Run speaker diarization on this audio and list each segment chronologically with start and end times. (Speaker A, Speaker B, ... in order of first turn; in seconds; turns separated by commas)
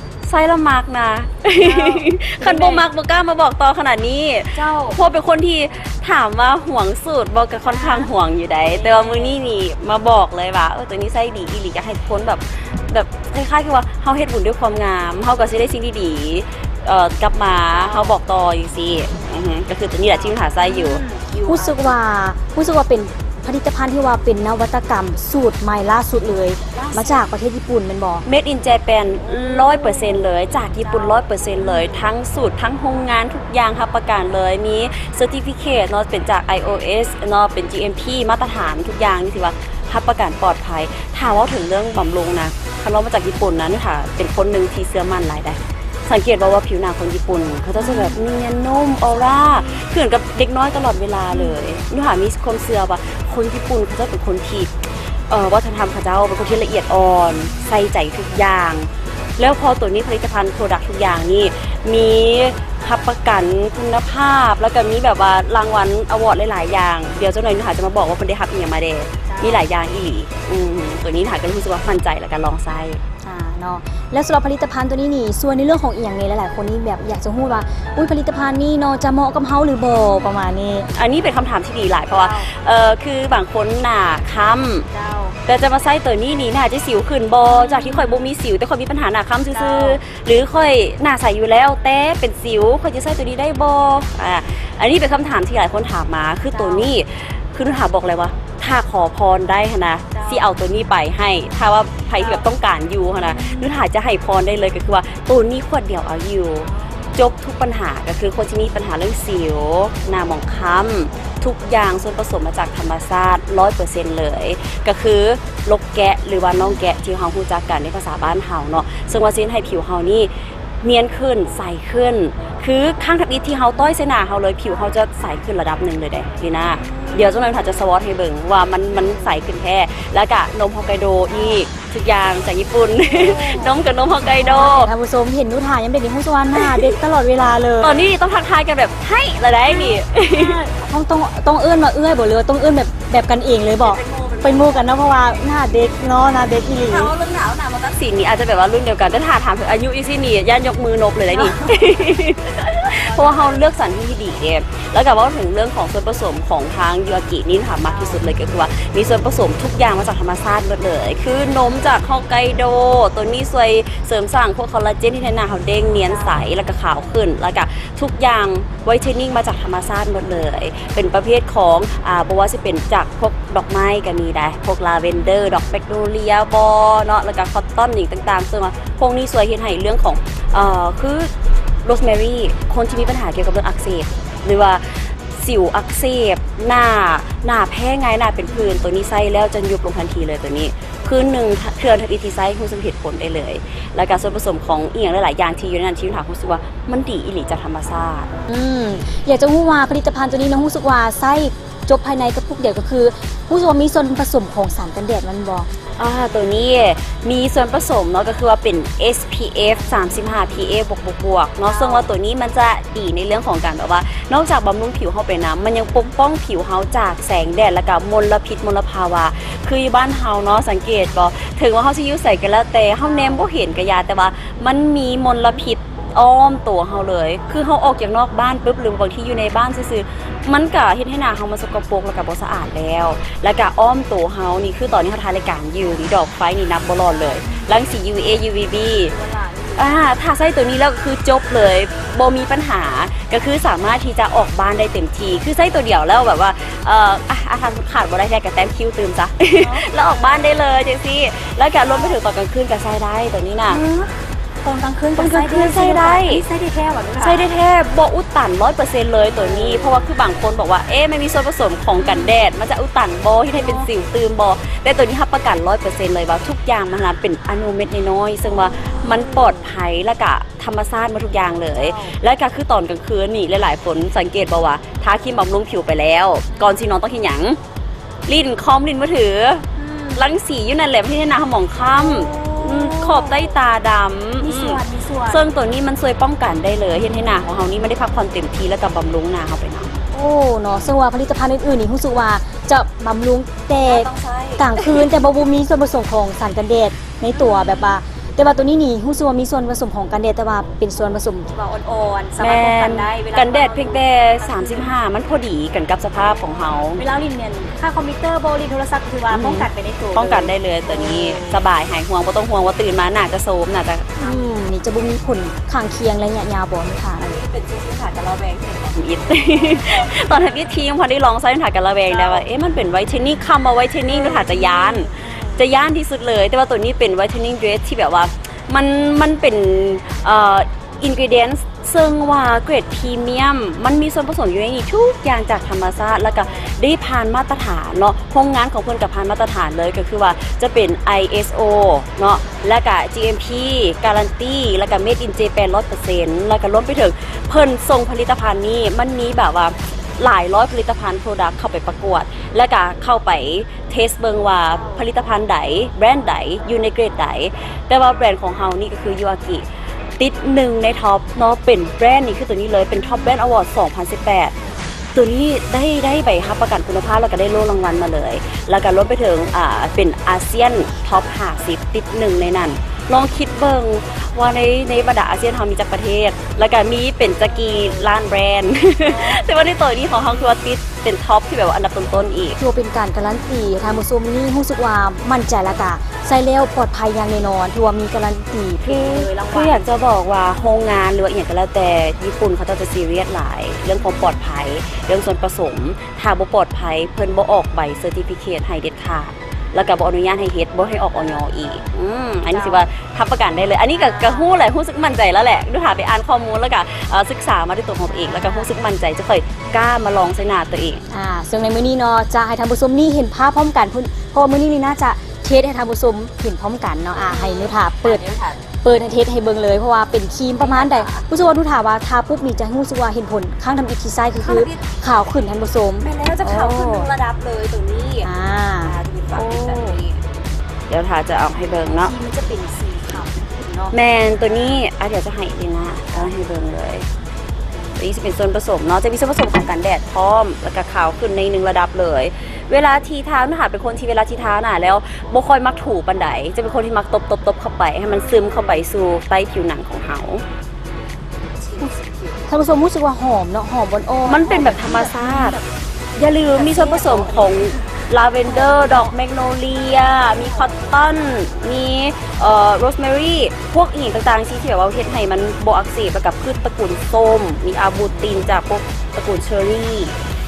Speaker A: 0.2-22.0, Speaker B: 1.6-2.9, Speaker B: 4.5-5.0, Speaker B: 7.6-9.4, Speaker B: 17.7-18.2, Speaker B: 20.1-28.3, Speaker A: 26.7-27.2, Speaker A: 28.3-73.0, Speaker B: 29.2-30.3, Speaker B: 30.8-32.1, Speaker B: 47.8-48.2, Speaker B: 49.1-49.8, Speaker B: 51.3-51.6, Speaker B: 69.3-69.7, Speaker B: 73.2-80.9, Speaker A: 80.9-84.9, Speaker B: 82.1-82.5, Speaker B: 84.9-85.4, Speaker A: 85.5-134.9, Speaker B: 87.5-88.3, Speaker B: 89.5-90.0, Speaker B: 96.5-96.9, Speaker B: 100.1-100.5, Speaker B: 102.2-102.4, Speaker B: 103.1-103.7, Speaker B: 106.6-107.1, Speaker B: 126.7-127.7, Speaker B: 128.9-129.4, Speaker B: 131.3-131.6, Speaker B: 133.1-138.1, Speaker A: 136.6-136.9, Speaker A: 137.8-140.6, Speaker B: 139.7-147.1, Speaker A: 143.8-145.4, Speaker A: 146.9-181.3, Speaker B: 151.3-153.7, Speaker B: 157.8-158.2, Speaker B: 165.9-166.4, Speaker A: 181.8-198.3, Speaker B: 198.5-205.7, Speaker A: 206.0-239.1, Speaker B: 211.7-212.1, Speaker B: 223.0-223.4, Speaker B: 237.1-237.8, Speaker B: 239.1-240.1, Speaker A: 239.8-253.8, Speaker B: 249.6-250.8, Speaker B: 251.8-252.2, Speaker B: 253.7-257.5, Speaker A: 255.2-256.4, Speaker A: 257.2-277.6, Speaker B: 259.2-260.1, Speaker B: 262.0-262.4, Speaker B: 263.5-263.9, Speaker B: 268.6-269.6, Speaker B: 271.7-272.1, Speaker B: 276.5-276.9, Speaker A: 278.3-290.0, Speaker B: 279.8-280.3, Speaker B: 281.9-283.6, Speaker B: 284.4-285.4, Speaker B: 290.1-304.9, Speaker A: 293.7-295.1, Speaker A: 297.3-298.0, Speaker A: 302.4-307.0, Speaker B: 307.0-311.6, Speaker A: 309.3-314.6, Speaker B: 314.2-317.4, Speaker A: 317.2-359.7, Speaker B: 319.3-320.7, Speaker B: 322.1-322.4, Speaker B: 324.1-325.6, Speaker B: 336.3-336.7, Speaker B: 342.4-342.7, Speaker B: 354.6-355.0, Speaker A: 360.2-364.5, Speaker A: 365.1-382.6, Speaker B: 377.6-378.0, Speaker B: 379.0-379.4, Speaker B: 382.6-389.9, Speaker A: 388.8-411.0, Speaker B: 402.5-402.9, Speaker B: 403.9-404.5, Speaker B: 408.1-408.7, Speaker B: 411.1-418.3, Speaker A: 417.1-418.6, Speaker B: 418.8-427.1, Speaker A: 420.6-421.3, Speaker A: 424.4-424.8, Speaker A: 426.0-428.3, Speaker B: 428.2-430.0, Speaker A: 428.8-430.2, Speaker A: 430.9-432.1, Speaker B: 431.9-434.8, Speaker A: 433.9-437.1, Speaker A: 438.0-450.4, Speaker B: 448.3-448.6, Speaker B: 451.7-455.7, Speaker A: 451.8-452.4, Speaker A: 454.3-455.6, Speaker A: 456.2-470.1, Speaker B: 456.5-459.1, Speaker B: 460.1-460.7